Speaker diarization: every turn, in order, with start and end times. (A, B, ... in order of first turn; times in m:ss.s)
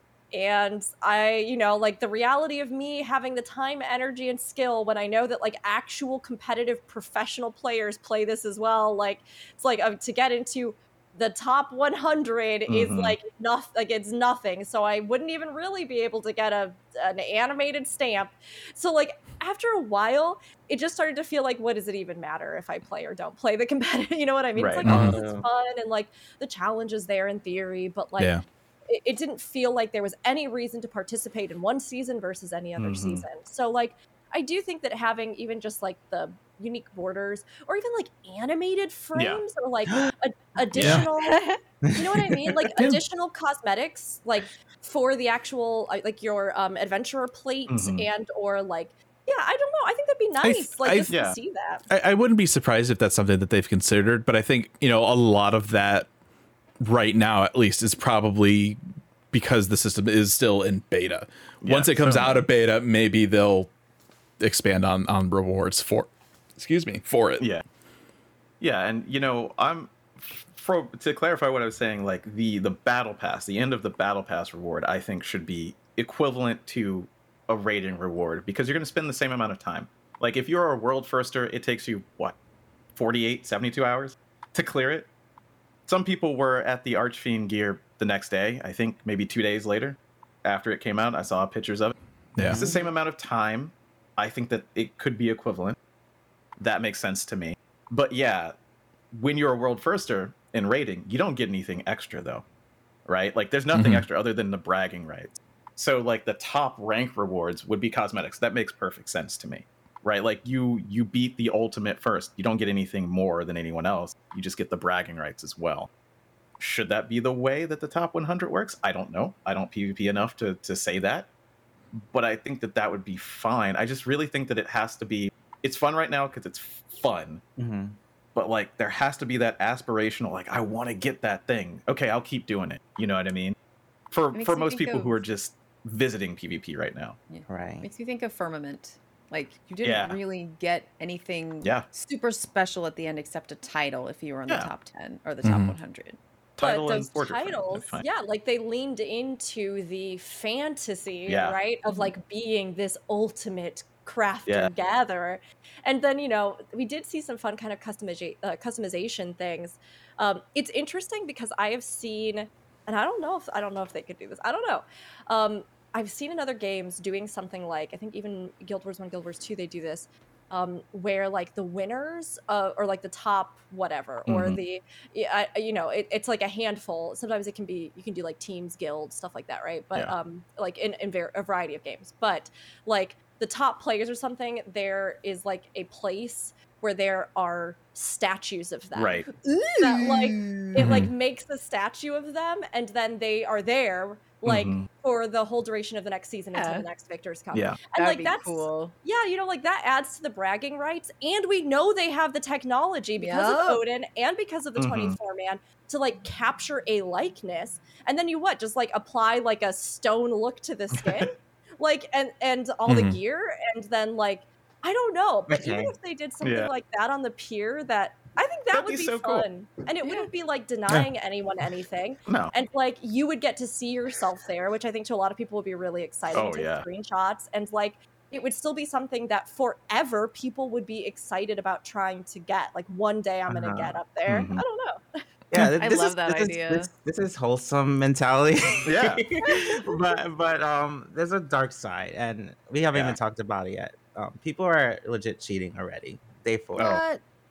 0:00.3-0:41.4 A
0:12.7-0:13.2 B
0:24.6-0:24.9 B
0:24.8-0:25.2 C
0:24.8-0:25.5 D
0:28.2-0:28.4 C
0:32.8-0:33.2 B
0:39.1-0:39.4 B
0:40.7-0:41.0 B
0:40.8-0:41.1 C
0:41.1-0:41.6 E
0:41.9-0:51.8 A
0:47.7-0:48.1 B
0:50.4-0:51.1 C
0:51.1-0:51.4 B
0:51.9-0:56.1 C
0:56.8-0:58.8 C
0:59.3-1:03.7 C
1:01.6-1:02.4 B
1:04.4-1:07.4 C
1:08.6-1:22.4 B
1:23.0-1:25.1 B
1:25.9-1:35.8 B
1:32.4-1:32.6 C
1:32.5-1:32.9 E
1:36.6-1:38.6 B
1:39.1-1:42.4 B
1:43.0-1:55.9 B
1:43.7-1:44.0 C
1:56.6-2:01.3 B
2:01.9-2:07.4 B
2:07.6-2:08.0 D
2:08.3-2:13.6 B
2:14.1-2:17.2 B
2:14.3-2:15.2 E
2:17.3-2:26.2 E
2:17.4-2:17.9 D
2:19.8-2:20.2 B
2:21.6-2:21.9 B
2:25.4-2:25.8 C
2:26.6-2:28.0 B
2:26.6-3:09.3 A
2:31.2-2:31.6 B
2:31.9-2:32.1 E
2:54.2-2:54.6 B
3:08.9-3:09.2 B
3:09.3-3:11.0 E
3:09.8-3:55.2 A
3:10.8-3:11.1 B
3:14.4-3:14.9 B
3:16.5-3:16.8 E
3:17.5-3:17.9 B
3:17.9-3:18.9 E
3:23.2-3:23.8 E
3:24.8-3:25.2 B
3:30.9-3:31.3 B
3:32.9-3:33.2 C
3:35.5-3:35.9 D
3:36.4-3:36.7 B
3:38.7-3:39.5 B
3:42.3-3:42.5 B
3:46.3-3:46.8 B
3:53.5-3:54.0 D
3:54.3-3:54.6 B
3:55.5-4:07.0 D
3:55.8-3:56.9 E
3:58.8-3:59.3 B
4:06.8-4:07.2 E